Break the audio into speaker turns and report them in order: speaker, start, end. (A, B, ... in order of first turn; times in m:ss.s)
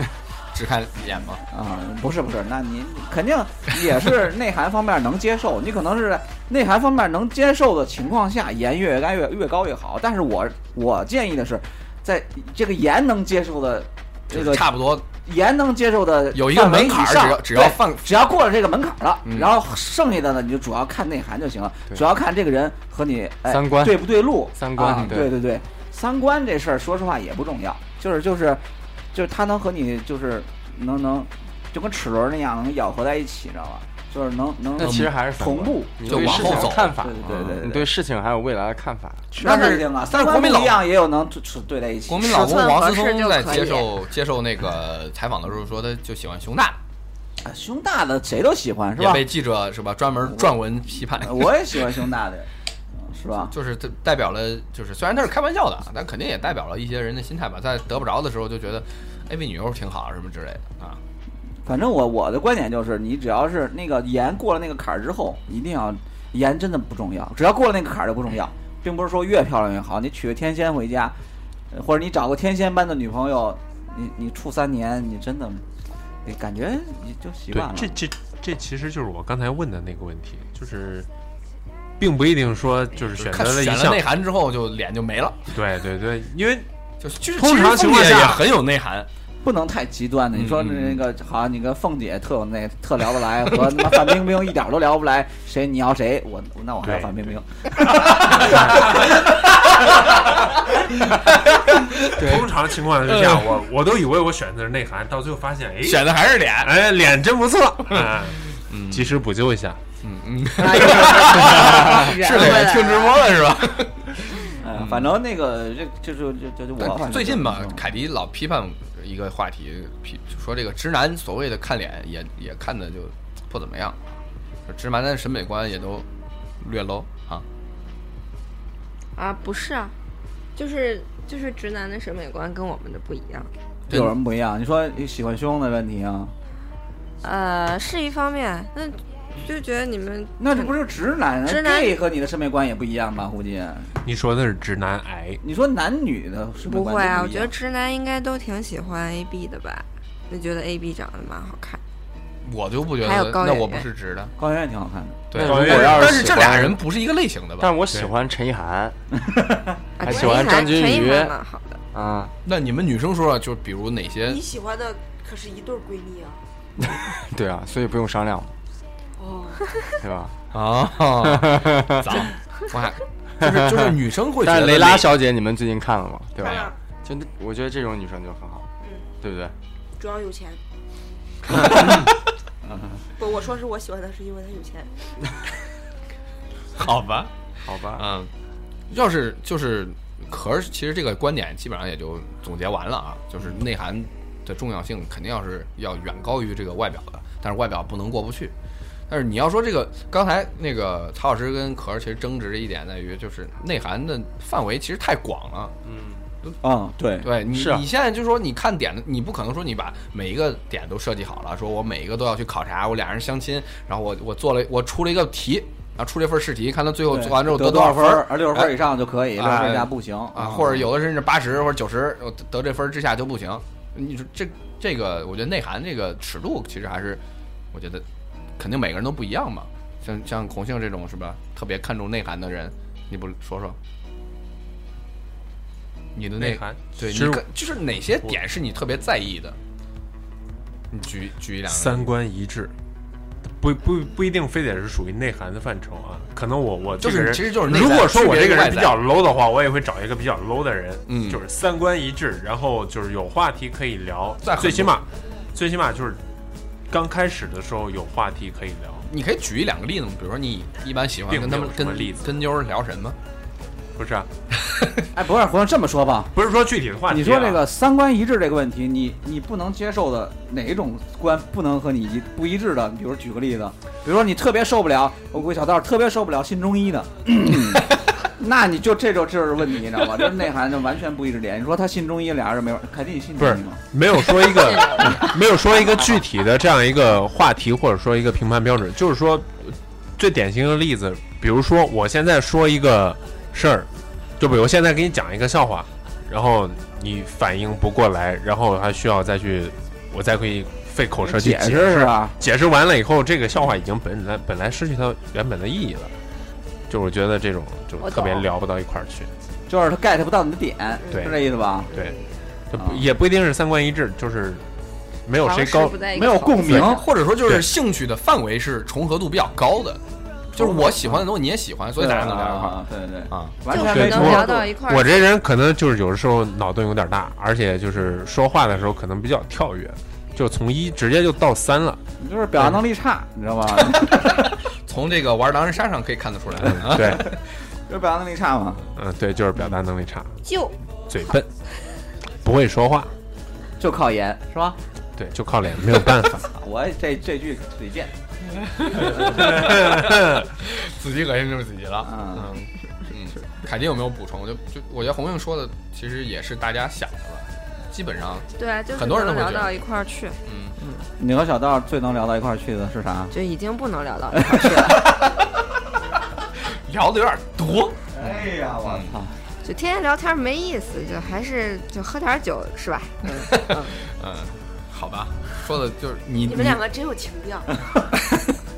0:00.5-0:01.4 A
0:01.5-0:37.9 B
0:14.3-0:15.0 A
0:16.3-0:18.2 A
0:19.2-0:19.5 A
0:23.5-0:25.3 C
0:24.8-0:25.2 A
0:34.8-0:39.3 C
0:34.8-0:35.1 A
0:36.0-0:37.0 A
0:39.3-0:42.5 B
0:39.4-0:40.8 A
0:42.1-0:46.8 A
0:42.2-0:43.9 D
0:47.4-0:49.3 B
0:49.0-0:51.9 A
0:50.3-0:52.5 B
0:53.0-0:53.5 B
0:53.5-1:01.0 A
1:01.6-1:11.2 B
1:11.7-1:15.6 B
1:16.2-1:18.0 B
1:17.5-1:21.1 E
1:22.0-1:24.0 E
1:23.1-1:25.5 A
1:25.5-1:26.7 E
1:27.0-1:29.1 A
1:27.3-1:28.5 E
1:29.4-1:39.0 B
1:30.3-1:31.0 A
1:36.8-1:37.2 E
1:38.0-1:39.1 E
1:41.9-1:42.4 A
1:42.1-1:49.8 E
1:43.1-1:43.5 A
1:45.8-1:46.7 A
1:47.9-1:49.1 A
1:50.0-1:55.1 A
1:50.6-1:53.3 D
1:54.6-1:57.8 B
1:56.8-2:04.2 A
2:04.7-2:06.0 A
2:06.6-2:07.4 A
2:09.2-2:09.9 D
2:10.6-2:13.5 D
2:13.9-2:16.3 B
2:17.2-2:20.7 D
2:20.4-2:23.9 B
2:21.4-2:22.0 D
2:24.0-2:25.4 E
2:25.4-2:27.5 B
2:26.6-2:31.8 D
2:32.4-2:34.3 A
2:33.0-2:33.8 D
2:34.4-2:35.3 B
2:35.3-2:37.7 A
2:35.3-2:36.8 C
2:35.4-2:36.5 E
2:37.6-2:39.0 C
2:39.3-2:39.6 B
2:40.0-2:41.4 C
2:40.0-2:41.8 D
2:40.1-2:40.7 F
2:41.9-2:42.3 C
2:42.4-2:44.4 A
2:44.3-2:46.4 F
2:46.8-2:48.5 C
2:49.2-2:49.7 F
2:50.0-2:50.3 C
2:50.5-2:55.2 A
2:51.2-2:52.2 C
2:53.4-2:58.7 C
2:56.4-2:56.7 A
2:56.4-2:56.7 F
2:59.2-2:59.5 C
3:00.0-3:00.6 F
3:01.5-3:02.1 A
3:02.6-3:03.0 B
3:03.2-3:04.9 F
3:06.8-3:07.3 A
3:07.6-3:08.0 C
3:07.9-3:08.3 A
3:08.9-3:18.5 A
3:19.1-3:25.7 A
3:25.8-3:26.2 C
3:26.6-3:27.3 B
3:27.2-3:38.8 A
3:27.5-3:27.8 C
3:37.1-3:40.9 B
3:39.3-3:47.2 A
3:47.7-3:48.0 A
3:48.6-3:53.8 A
3:56.1-3:59.6 A
3:56.4-3:57.4 E
4:00.9-4:02.1 A
4:01.7-4:02.7 E
4:03.6-4:16.2 E
4:07.0-4:09.0 A
4:11.1-4:11.4 A
4:14.4-4:14.9 A
4:16.9-4:19.1 E
4:19.1-4:23.2 A
4:21.3-4:22.4 E
4:24.0-4:24.3 E
4:25.1-4:26.3 B
4:26.3-4:27.6 E
4:27.1-4:43.8 B
4:43.4-5:06.1 E
4:44.7-4:45.2 D
5:01.2-5:02.3 B
5:06.9-5:09.3 E
5:08.0-5:08.5 D
5:09.7-5:11.9 B
5:11.1-5:11.4 E
5:11.9-5:12.2 D
5:12.7-5:14.6 E
5:12.7-5:13.1 B
5:15.2-5:16.1 E
5:15.4-5:17.0 D
5:16.1-5:17.0 B
5:16.8-5:20.0 A
5:17.4-5:17.7 E
5:20.5-5:23.6 A
5:20.6-5:21.3 B
5:22.0-5:24.7 B
5:23.7-5:25.3 D
5:23.8-5:32.0 E
5:32.2-5:34.4 B
5:34.8-5:37.3 A
5:36.6-5:37.3 E
5:36.9-5:37.2 B
5:37.9-5:38.8 B
5:39.0-5:40.4 E
5:40.4-5:40.7 D
5:41.1-5:41.5 E
5:42.4-5:43.1 E
5:43.8-5:44.8 B
5:45.2-5:46.5 E
5:46.4-5:48.1 B
5:48.7-5:59.8 A
5:49.1-5:49.5 B
5:49.4-5:50.5 E
5:52.0-5:52.5 B
5:58.6-6:00.4 D
6:00.4-6:00.8 A
6:01.2-6:03.3 B
6:03.3-6:05.0 D
6:04.3-6:05.1 B
6:05.0-6:05.5 A
6:06.8-6:09.1 A
6:08.1-6:09.3 B
6:09.6-6:14.0 D
6:13.3-6:16.8 A
6:16.4-6:17.7 F